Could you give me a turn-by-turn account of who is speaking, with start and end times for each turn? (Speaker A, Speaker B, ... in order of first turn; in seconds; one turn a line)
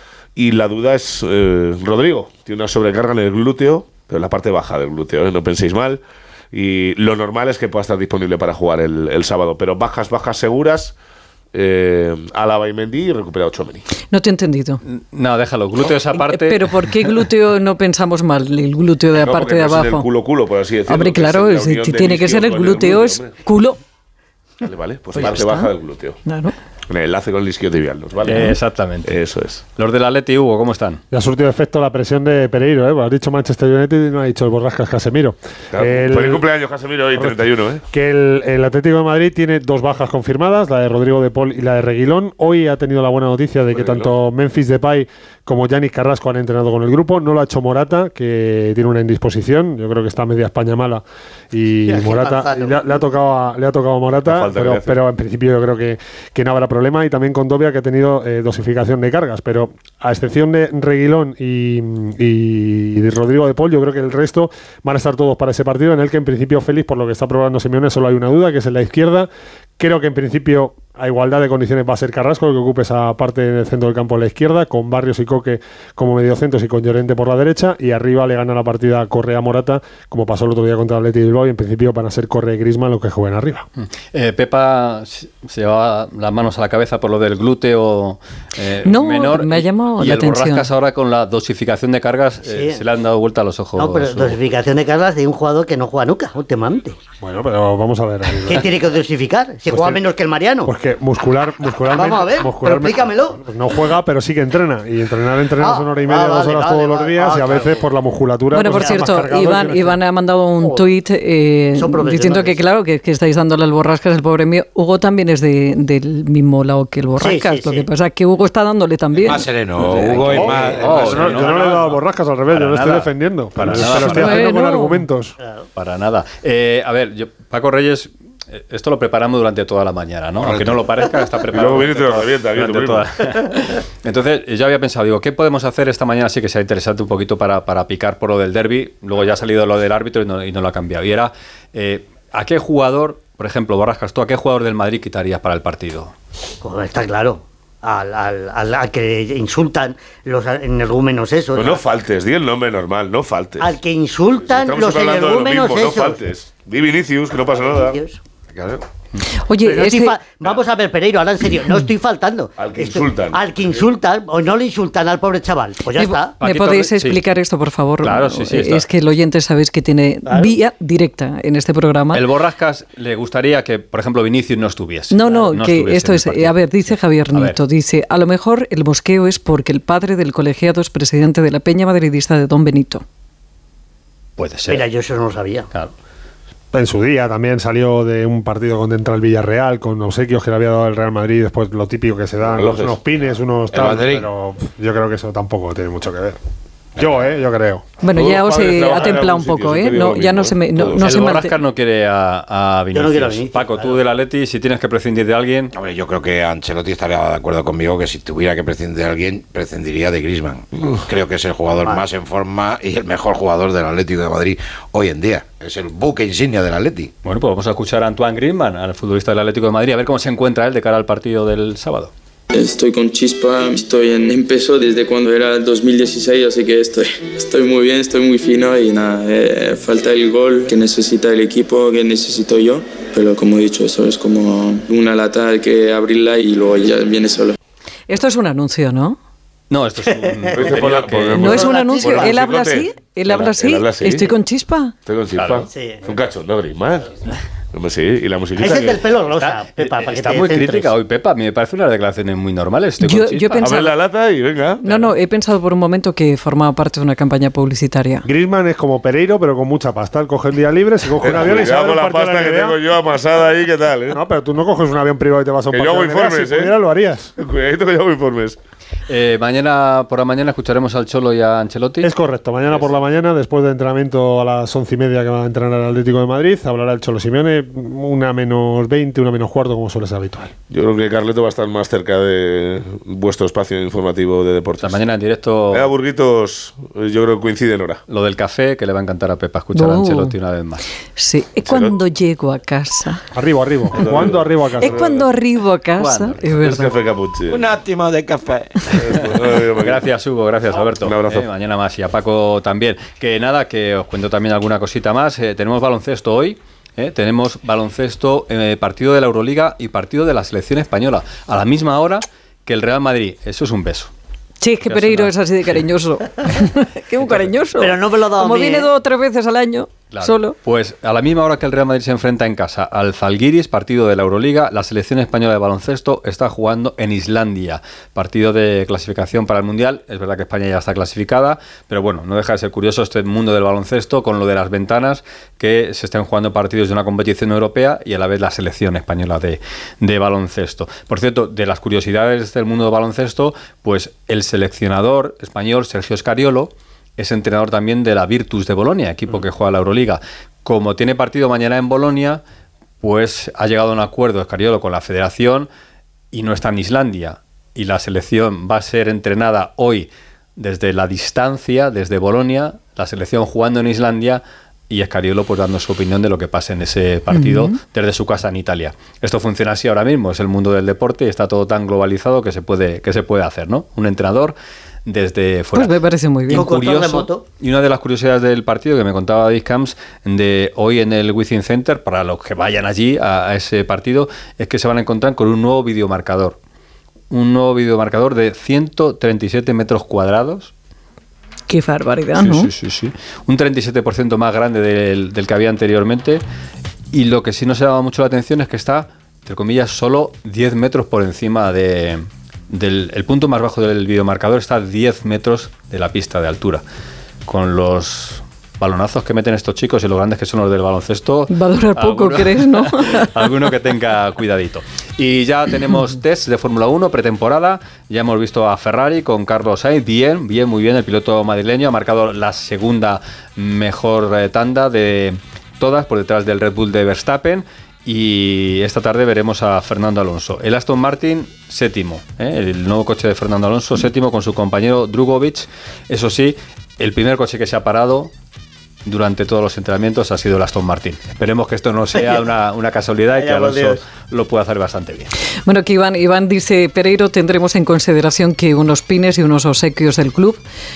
Speaker A: 0.3-10.9
Speaker A: 11.5-13.8
Speaker B: 14.1-14.8
Speaker C: 14.8-16.6
Speaker B: 16.1-20.1
Speaker A: 19.1-23.3
Speaker B: 20.9-23.8
Speaker A: 24.6-26.1
Speaker B: 25.1-25.7
Speaker B: 26.2-26.5
Speaker A: 26.9-29.6
Speaker C: 28.2-29.1
Speaker C: 29.8-31.0
Speaker D: 31.1-36.5
Speaker A: 35.7-37.8
Speaker D: 37.9-83.6
Speaker A: 43.7-44.1
Speaker E: 51.9-52.9
Speaker A: 54.2-55.0
Speaker C: 83.8-94.4
Speaker B: 88.8-90.7
Speaker E: 92.4-92.8
Speaker E: 93.8-97.0
Speaker D: 97.2-98.7
Speaker E: 98.5-100.7
Speaker D: 99.7-100.0
Speaker D: 100.6-110.0
Speaker E: 101.9-103.4
Speaker E: 105.6-107.8
Speaker B: 108.5-119.5
Speaker E: 110.6-110.9
Speaker E: 111.7-112.6
Speaker E: 117.2-117.9
Speaker F: 119.2-121.5
Speaker C: 120.0-124.4
Speaker D: 120.2-125.4
Speaker B: 123.7-125.0
Speaker C: 125.7-146.1
Speaker F: 130.4-130.8
Speaker A: 131.5-133.0
Speaker E: 146.6-151.8
Speaker A: 151.5-153.8
Speaker E: 153.6-156.2
Speaker A: 154.4-158.0
Speaker E: 157.5-158.2
Speaker F: 158.5-158.8
Speaker B: 159.3-160.2
Speaker E: 159.6-166.3
Speaker A: 162.6-163.9
Speaker B: 165.9-172.2
Speaker C: 166.4-167.2
Speaker C: 168.0-168.9
Speaker E: 170.2-170.6
Speaker C: 172.1-177.6
Speaker B: 175.1-183.0
Speaker C: 184.4-184.9
Speaker E: 184.7-185.7
Speaker D: 186.7-196.4
Speaker A: 192.4-193.0
Speaker F: 193.7-194.3
Speaker D: 196.9-197.8
Speaker B: 198.0-201.6
Speaker A: 198.1-201.0
Speaker C: 201.0-205.7
Speaker E: 202.9-204.0
Speaker F: 205.7-217.1
Speaker E: 211.8-212.0
Speaker C: 217.2-222.1
Speaker G: 222.5-237.6
Speaker B: 238.1-239.2
Speaker C: 239.7-241.7
Speaker A: 240.5-244.3
Speaker B: 241.3-244.9
Speaker E: 241.5-242.3
Speaker A: 245.1-247.2
Speaker C: 245.3-245.7
Speaker E: 245.7-246.1
Speaker A: 247.7-249.1
Speaker E: 248.6-250.9
Speaker C: 249.4-253.7
Speaker B: 253.0-254.0
Speaker A: 253.6-254.9
Speaker B: 254.8-258.2
Speaker D: 258.2-262.8
Speaker A: 261.2-264.1
Speaker D: 264.1-267.3
Speaker A: 265.7-266.8
Speaker A: 267.4-268.6
Speaker C: 269.1-272.1
Speaker D: 272.0-280.5
Speaker A: 280.7-285.0
Speaker C: 284.8-285.9
Speaker A: 285.7-288.0
Speaker C: 288.1-290.8
Speaker B: 289.7-290.3
Speaker B: 291.2-293.2
Speaker A: 291.6-292.0
Speaker D: 293.3-295.0
Speaker A: 293.9-295.2
Speaker B: 294.8-296.9
Speaker C: 295.9-296.4
Speaker A: 296.6-297.6
Speaker F: 297.5-298.8
Speaker A: 298.9-300.0
Speaker C: 299.8-314.1
Speaker A: 301.0-301.5
Speaker B: 314.6-320.5
Speaker C: 314.8-315.3
Speaker E: 317.8-318.9
Speaker C: 320.1-352.4
Speaker C: 353.0-355.7
Speaker C: 356.3-375.9
Speaker B: 367.3-367.8
Speaker B: 375.7-376.7
Speaker C: 376.5-386.6
Speaker E: 376.5-377.4
Speaker C: 387.3-390.7
Speaker B: 391.7-392.7
Speaker C: 392.4-396.4
Speaker C: 397.1-406.8
Speaker C: 407.4-438.3
Speaker B: 411.5-413.5
Speaker C: 439.0-445.3
Speaker E: 442.1-442.4
Speaker E: 443.3-444.0
Speaker B: 445.6-450.6